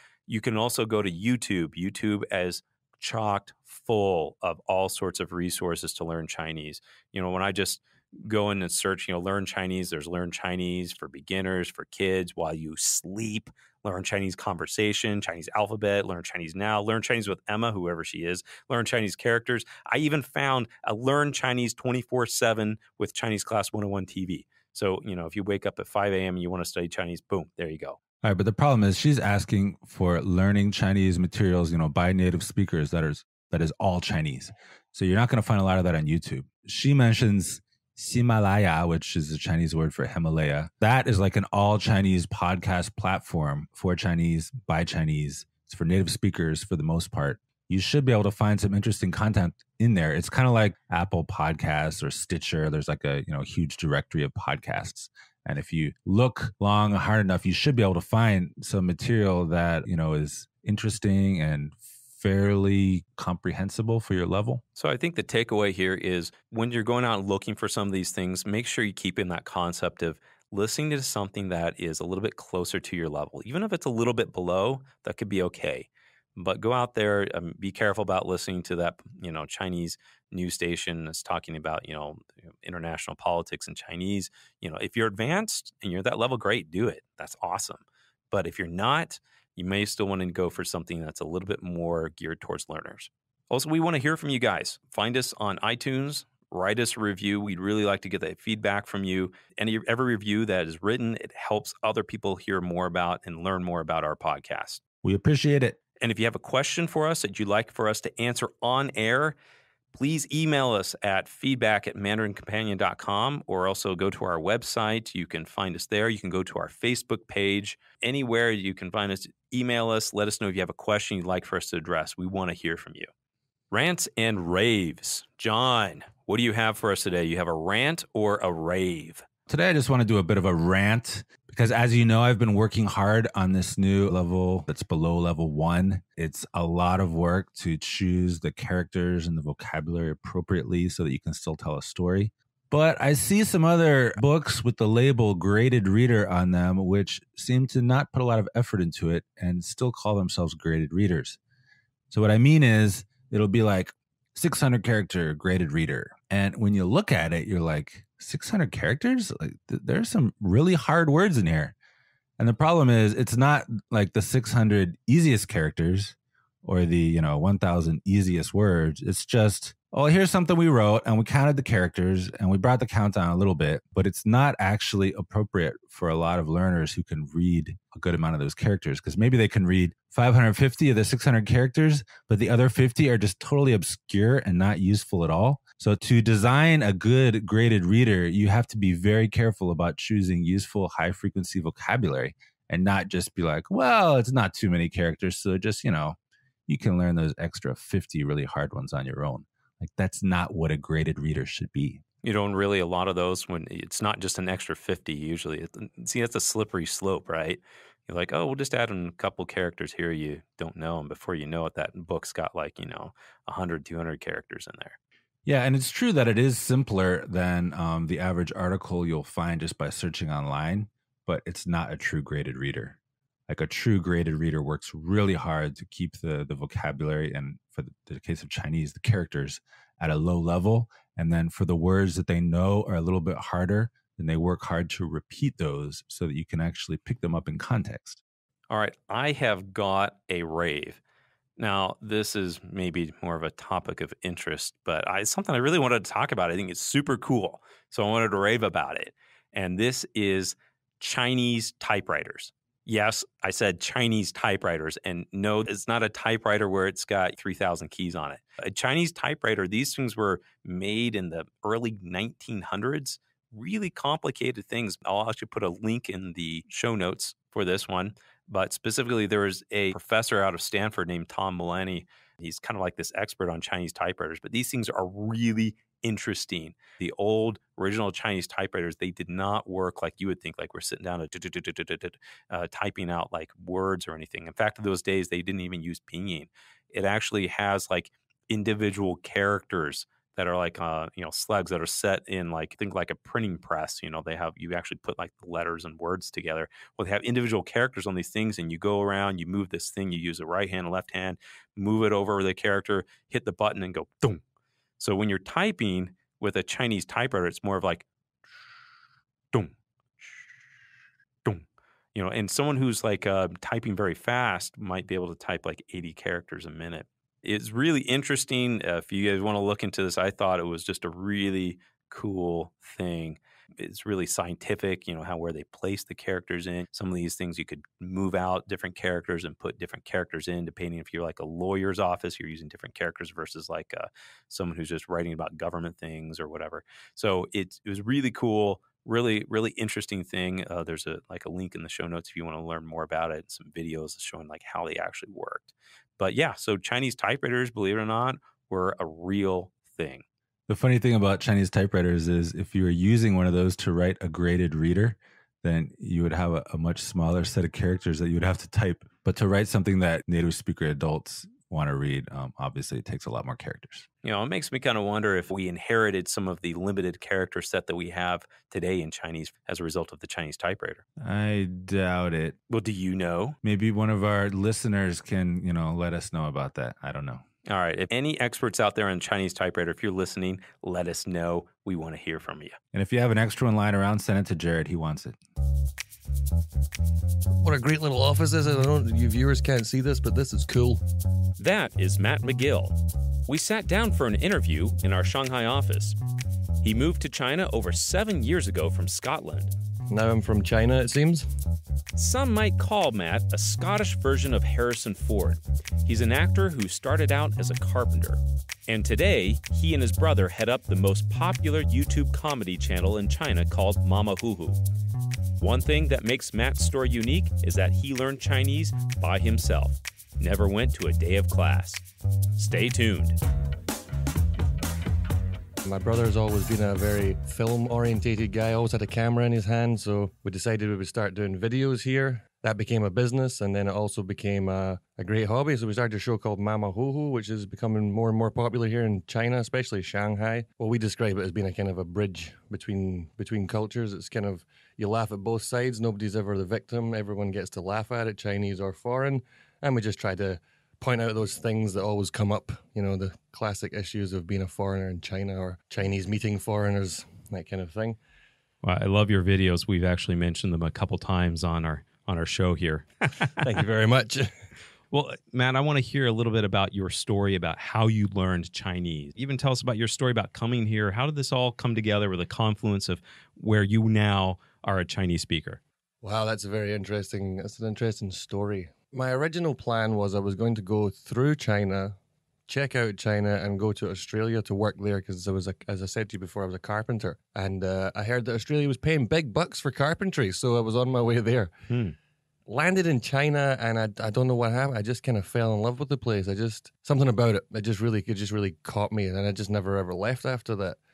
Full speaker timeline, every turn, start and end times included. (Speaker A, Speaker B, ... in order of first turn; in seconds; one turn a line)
Speaker A: 0.3-28.0
Speaker B: 28.2-64.6
Speaker A: 64.8-104.8
Speaker B: 105.0-105.8
Speaker A: 106.0-109.4
Speaker A: 109.9-123.1
Speaker A: 123.7-129.2
Speaker B: 129.5-151.4
Speaker B: 152.1-161.8
Speaker B: 162.4-202.0
Speaker A: 202.2-215.0
Speaker B: 215.5-223.0
Speaker B: 223.5-238.2
Speaker A: 238.7-241.0
Speaker A: 241.6-304.4
Speaker A: 305.0-308.1
Speaker A: 309.5-310.4
Speaker A: 312.1-350.2
Speaker B: 350.7-364.1
Speaker A: 364.2-371.0
Speaker B: 371.2-372.6
Speaker A: 372.7-373.6
Speaker B: 373.6-377.4
Speaker A: 377.7-382.8
Speaker B: 382.9-385.4
Speaker C: 387.6-391.0
Speaker A: 391.6-396.2
Speaker A: 396.8-399.7
Speaker C: 400.1-401.5
Speaker A: 402.2-414.8
Speaker A: 415.6-422.0
Speaker A: 422.6-423.4
Speaker C: 425.9-458.2
Speaker A: 458.8-463.6
Speaker C: 463.6-464.5
Speaker A: 465.1-475.8
Speaker C: 476.2-482.2
Speaker C: 482.7-491.7
Speaker A: 491.9-492.2
Speaker C: 492.7-501.0